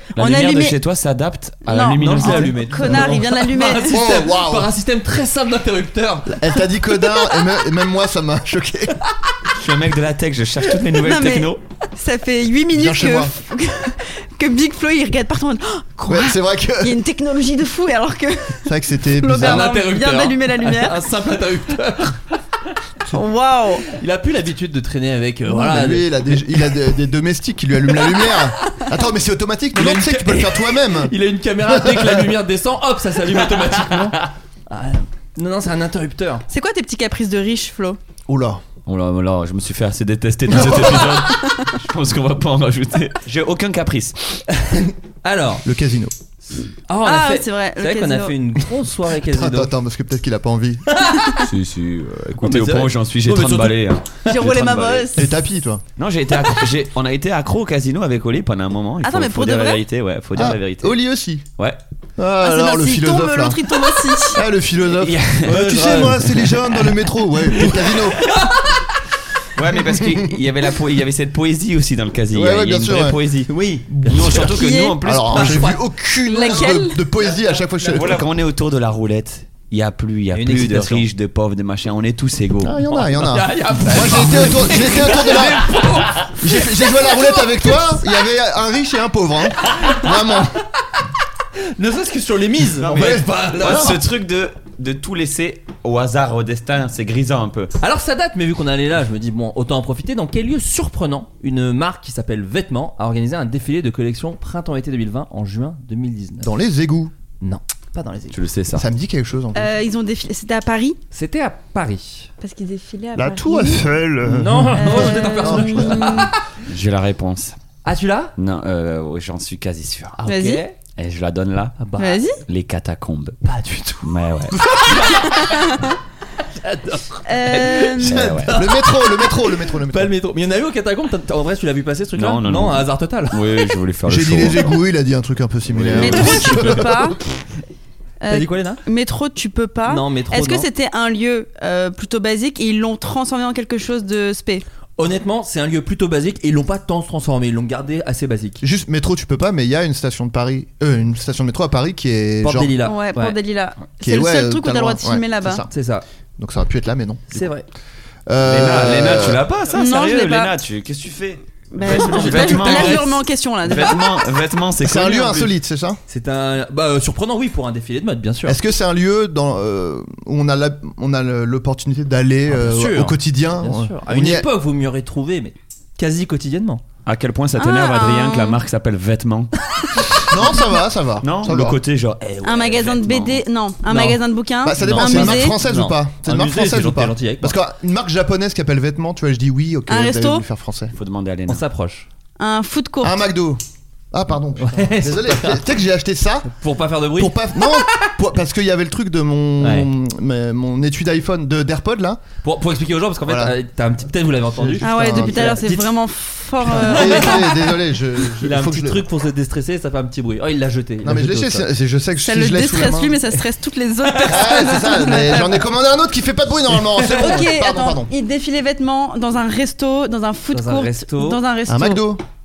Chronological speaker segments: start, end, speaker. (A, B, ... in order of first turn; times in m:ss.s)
0:00.1-0:03.1 A
0:00.2-0:00.8 B
0:01.7-0:04.0 B
0:02.0-0:06.7 C
0:03.9-0:04.7 D
0:06.3-0:09.0 D
0:09.5-0:11.6 A
0:11.0-0:21.0 B
0:12.7-0:13.3 D
0:16.1-0:17.0 D
0:18.6-0:19.7 D
0:19.4-0:22.2 C
0:23.1-0:23.9 B
0:23.9-0:26.7 C
0:25.4-0:31.1 D
0:28.0-0:28.9 C
0:29.7-0:34.2 C
0:31.7-0:32.3 D
0:33.9-0:34.3 A
0:34.7-0:36.4 C
0:36.5-0:38.0 B
0:38.3-0:38.6 D
0:38.8-0:44.4 A
0:40.6-0:40.9 D
0:41.3-0:41.7 B
0:44.6-0:45.6 C
0:45.6-0:46.1 D
0:46.9-0:49.7 C
0:47.0-0:48.3 B
0:49.2-0:50.8 D
0:50.9-0:51.4 C
0:51.4-0:55.2 A
0:52.4-0:53.8 C
0:54.3-0:55.3 B
0:55.2-0:55.8 D
0:56.0-1:01.0 A
0:59.0-0:59.8 B
1:00.3-1:01.4 D
1:02.2-1:08.3 D
1:02.4-1:04.4 B
1:04.9-1:06.4 A
1:05.4-1:06.5 C
1:07.5-1:08.9 C
1:09.5-1:13.5 A
1:10.0-1:10.3 D
1:12.3-1:13.2 D
1:13.5-1:14.5 C
1:13.9-1:18.2 D
1:14.0-1:15.7 A
1:14.5-1:15.0 B
1:15.3-1:15.8 C
1:16.2-1:17.0 B
1:17.9-1:22.8 A
1:20.3-1:21.0 C
1:22.6-1:30.5 D
1:22.9-1:27.4 C
1:31.8-1:34.0 C
1:32.8-1:37.7 A
1:32.8-1:33.9 D
1:37.8-1:46.5 C
1:46.4-1:47.1 D
1:47.4-1:48.4 C
1:48.3-1:48.8 A
1:48.7-1:49.7 D
1:49.5-1:51.0 B
1:51.1-1:52.3 C
1:52.4-1:53.9 B
1:53.2-1:56.3 D
1:54.2-1:56.4 C
1:54.8-1:56.3 B
1:56.6-1:57.6 A
1:57.8-1:58.3 C
1:58.4-2:00.2 A
2:00.2-2:00.8 C
2:00.2-2:00.6 B
2:01.0-2:01.8 A
2:01.8-2:02.2 C
2:02.0-2:02.4 B
2:02.4-2:03.4 A
2:03.4-2:04.1 C
2:04.0-2:04.5 A
2:04.7-2:05.4 C
2:05.2-2:05.9 B
2:06.6-2:13.4 C
2:07.2-2:08.2 B
2:08.0-2:08.6 A
2:08.0-2:10.1 D
2:12.2-2:14.7 A
2:14.1-2:17.1 D
2:15.7-2:16.7 A
2:16.0-2:17.2 B
2:18.2-2:24.6 B
2:18.3-2:18.8 C
2:19.8-2:20.7 C
2:25.0-2:28.6 C
2:28.6-2:32.8 D
2:32.4-2:33.4 C
2:32.8-2:35.7 B
2:34.0-2:35.7 D
2:35.7-2:36.0 C
2:36.4-2:37.5 D
2:37.3-2:37.6 C
2:38.3-2:39.4 D
2:38.4-2:45.5 A
2:39.7-2:40.5 B
2:41.7-2:44.2 B
2:41.8-2:43.1 C
2:44.8-2:46.0 D
2:46.1-2:48.6 C
2:48.4-2:54.5 D
2:52.5-2:56.8 C
2:57.0-2:59.6 A
2:57.6-2:58.6 B
3:00.3-3:01.8 D
3:01.2-3:02.2 A
3:02.2-3:03.0 C
3:02.4-3:05.6 B
3:02.8-3:03.4 A
3:03.9-3:04.2 C
3:04.6-3:10.9 D
3:04.8-3:07.6 C
3:09.9-3:10.4 B
3:10.9-3:11.6 A
3:11.5-3:12.1 C
3:12.4-3:13.2 B
3:13.0-3:13.6 D
3:14.1-3:16.5 D
3:14.6-3:15.6 C
3:16.4-3:17.9 C
3:17.2-3:22.2 D
3:19.6-3:19.9 C
3:22.4-3:25.9 C
3:23.2-3:23.5 D
3:24.5-3:25.7 D
3:24.8-3:27.5 B
3:26.6-3:29.0 D
3:26.7-3:27.5 C
3:28.2-3:31.6 C
3:31.0-3:33.2 D
3:32.2-3:35.6 B
3:34.0-3:34.7 C
3:34.3-3:38.1 D
3:36.7-3:37.4 C
3:37.1-3:42.0 B
3:40.5-3:41.4 C
3:41.7-3:42.2 D